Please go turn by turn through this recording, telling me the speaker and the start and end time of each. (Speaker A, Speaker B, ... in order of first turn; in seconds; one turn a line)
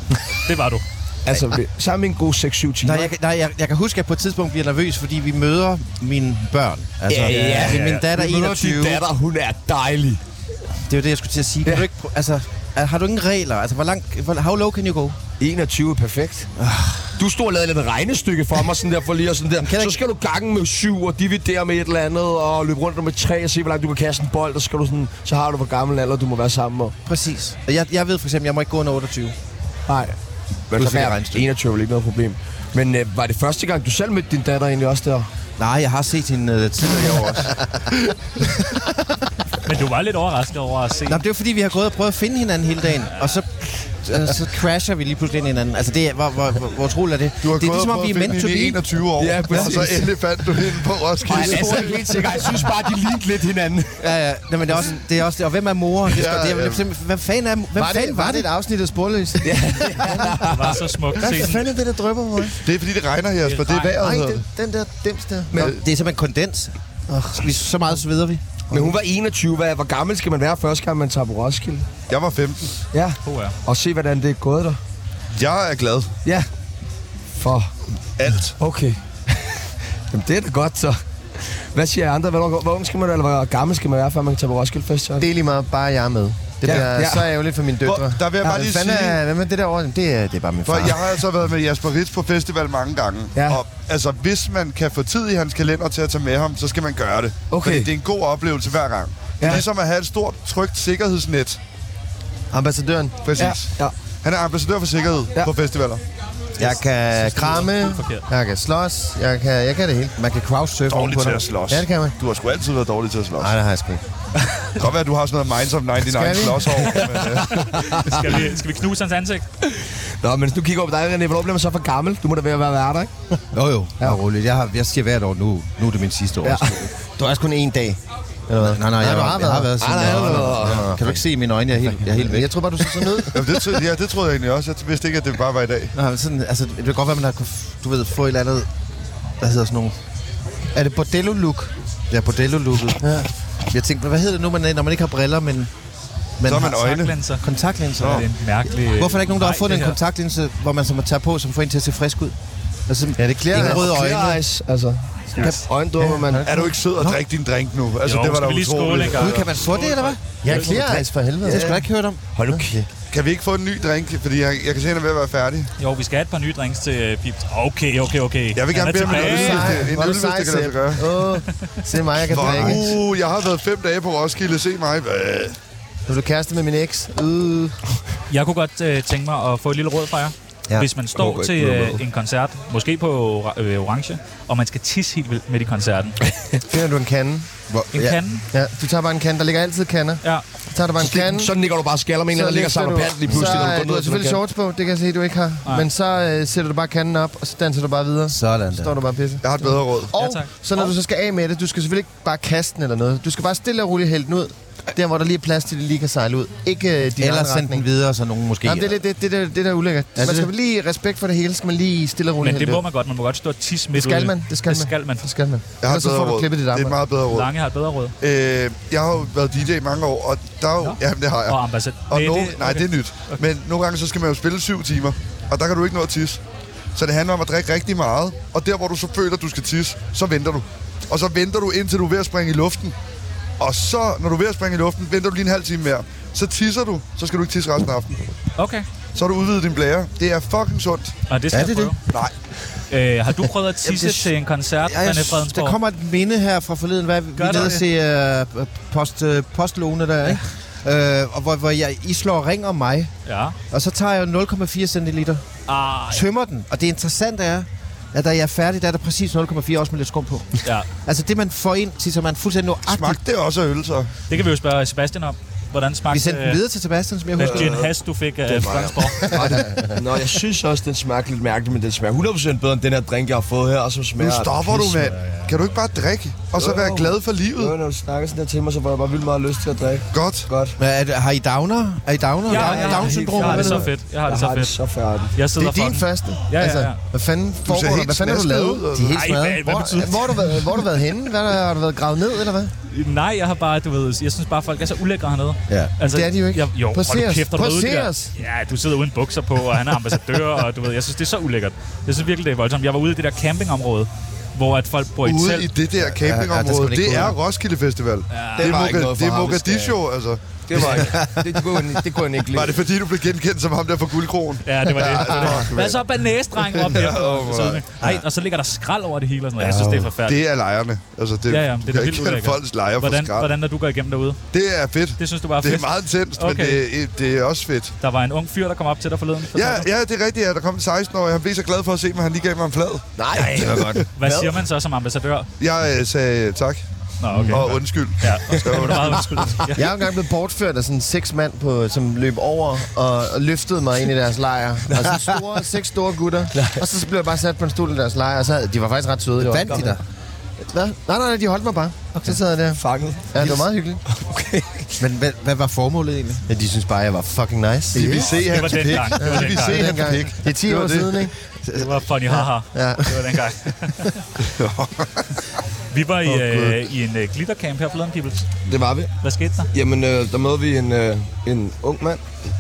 Speaker A: 0.3-0.8
Speaker B: 1.2-3.1
Speaker C: 2.8-9.1
Speaker B: 7.1-10.2
Speaker A: 7.3-8.1
Speaker C: 10.9-15.2
Speaker B: 15.4-16.5
Speaker C: 16.6-17.1
Speaker B: 17.2-26.9
Speaker C: 19.6-20.0
Speaker C: 27.1-29.4
Speaker B: 29.9-30.1
Speaker B: 30.7-35.3
Speaker C: 30.7-31.5
Speaker C: 35.6-37.6
Speaker A: 39.6-41.2
Speaker C: 41.1-48.8
Speaker D: 47.4-52.1
Speaker B: 49.2-50.2
Speaker B: 51.2-54.1
Speaker E: 51.3-52.4
Speaker C: 54.0-58.5
Speaker D: 56.1-56.9
Speaker E: 57.8-62.6
Speaker B: 59.4-60.8
Speaker A: 60.4-61.6
Speaker D: 62.6-64.5
Speaker A: 63.5-64.0
Speaker E: 64.0-65.8
Speaker C: 65.5-66.7
Speaker E: 67.1-67.5
Speaker C: 67.3-68.4
Speaker B: 68.7-71.9
Speaker D: 72.1-72.8
Speaker B: 72.9-74.8
Speaker A: 73.2-73.6
Speaker D: 75.3-76.1
Speaker B: 77.4-77.8
Speaker D: 78.2-78.5
Speaker B: 78.6-85.3
Speaker E: 85.2-91.2
Speaker B: 86.6-87.3
Speaker D: 87.8-89.2
Speaker D: 90.7-101.6
Speaker B: 93.3-93.6
Speaker B: 97.5-97.9
Speaker B: 99.4-99.7
Speaker E: 102.5-103.4
Speaker D: 103.2-106.0
Speaker B: 103.4-103.9
Speaker E: 106.6-110.2
Speaker A: 107.2-108.3
Speaker C: 110.2-111.4
Speaker D: 110.9-113.5
Speaker E: 111.2-112.1
Speaker E: 113.4-114.0
Speaker D: 114.8-117.9
Speaker E: 116.0-117.3
Speaker A: 117.5-119.5
Speaker B: 117.9-118.3
Speaker B: 119.6-123.1
Speaker C: 123.5-126.9
Speaker B: 126.4-126.9
Speaker E: 127.2-131.2
Speaker C: 128.6-133.3
Speaker B: 129.8-130.9
Speaker E: 131.9-133.8
Speaker D: 133.3-135.9
Speaker C: 136.0-138.7
Speaker C: 139.4-139.9
Speaker E: 140.7-141.7
Speaker C: 142.1-143.2
Speaker E: 143.0-143.3
Speaker C: 143.7-145.7
Speaker C: 146.4-148.3
Speaker D: 146.5-147.2
Speaker A: 146.5-147.4
Speaker D: 148.0-148.3
Speaker A: 148.0-150.0
Speaker C: 148.9-152.4
Speaker C: 152.9-154.4
Speaker E: 153.2-154.0
Speaker B: 153.5-156.5
Speaker C: 155.4-156.2
Speaker E: 156.3-156.8
Speaker D: 156.4-159.5
Speaker A: 158.0-160.7
Speaker C: 159.1-162.2
Speaker E: 160.4-161.8
Speaker B: 160.6-162.7
Speaker E: 162.5-162.9
Speaker D: 163.1-165.7
Speaker A: 165.8-169.9
Speaker D: 168.6-171.2
Speaker E: 169.1-173.0
Speaker D: 172.3-175.6
Speaker E: 176.1-177.8
Speaker A: 178.3-186.2
Speaker B: 181.2-182.0
Speaker E: 186.7-187.5
Speaker C: 187.7-188.2
Speaker A: 187.9-188.4
Speaker E: 188.5-191.5
Speaker B: 191.0-194.4
Speaker E: 192.3-207.8
Speaker C: 193.3-193.7
Speaker C: 198.3-199.0
Speaker D: 199.4-200.1
Speaker A: 200.1-200.5
Speaker C: 207.2-209.0
Speaker E: 208.7-212.8
Speaker C: 210.2-210.5
Speaker A: 212.4-215.3
Speaker E: 213.9-217.0
Speaker D: 215.8-217.5
Speaker A: 217.3-218.2
Speaker D: 218.2-226.4
Speaker A: 220.8-223.4
Speaker D: 226.9-232.9
Speaker D: 233.6-238.2
Speaker A: 238.6-238.8
Speaker D: 239.2-241.1
Speaker A: 241.3-242.0
Speaker C: 241.5-242.0
Speaker A: 242.9-245.8
Speaker C: 243.8-244.3
Speaker C: 244.8-253.1
Speaker A: 247.4-247.8
Speaker A: 253.3-253.6
Speaker C: 253.7-255.4
Speaker A: 255.7-256.3
Speaker C: 256.1-263.2
Speaker D: 262.9-264.1
Speaker A: 264.3-266.6
Speaker C: 266.1-267.9
Speaker A: 267.4-269.5
Speaker B: 267.4-267.9
Speaker B: 268.5-275.0
Speaker E: 269.6-269.9
Speaker D: 274.2-277.8
Speaker B: 276.6-280.8
Speaker D: 280.1-280.5
Speaker C: 280.8-283.9
Speaker A: 282.5-284.8
Speaker B: 282.5-285.4
Speaker A: 285.4-287.0
Speaker E: 285.6-292.7
Speaker D: 287.6-289.3
Speaker A: 289.1-290.8
Speaker A: 292.9-305.7
Speaker C: 295.7-295.9
Speaker E: 296.0-298.3
Speaker D: 305.2-311.1
Speaker C: 306.1-307.4
Speaker A: 308.3-308.9
Speaker B: 308.6-310.0
Speaker B: 310.7-312.8
Speaker C: 310.8-311.5
Speaker D: 312.5-316.0
Speaker A: 314.6-320.4
Speaker D: 316.6-317.9
Speaker D: 319.8-323.5
Speaker A: 321.5-324.4
Speaker D: 324.5-327.9
Speaker A: 325.2-326.8
Speaker A: 328.0-329.9
Speaker D: 329.5-334.1
Speaker B: 333.2-334.5
Speaker A: 334.2-335.5
Speaker D: 335.6-336.8
Speaker A: 337.2-339.9
Speaker C: 337.3-337.7
Speaker D: 337.5-339.6
Speaker E: 339.8-350.0
Speaker B: 344.9-345.2
Speaker B: 346.5-346.9
Speaker C: 349.4-350.0
Speaker B: 349.5-349.9
Speaker E: 350.7-352.8
Speaker B: 352.8-354.9
Speaker E: 353.3-354.0
Speaker C: 355.0-356.4
Speaker E: 356.5-358.4
Speaker D: 357.9-361.3
Speaker B: 358.0-358.2
Speaker A: 358.2-360.1
Speaker E: 359.2-361.3
Speaker A: 361.7-364.1
Speaker E: 362.7-363.0
Speaker D: 364.4-365.4
Speaker A: 365.9-368.5
Speaker D: 366.3-366.8
Speaker B: 368.7-369.1
Speaker A: 369.2-369.7
Speaker B: 369.7-372.2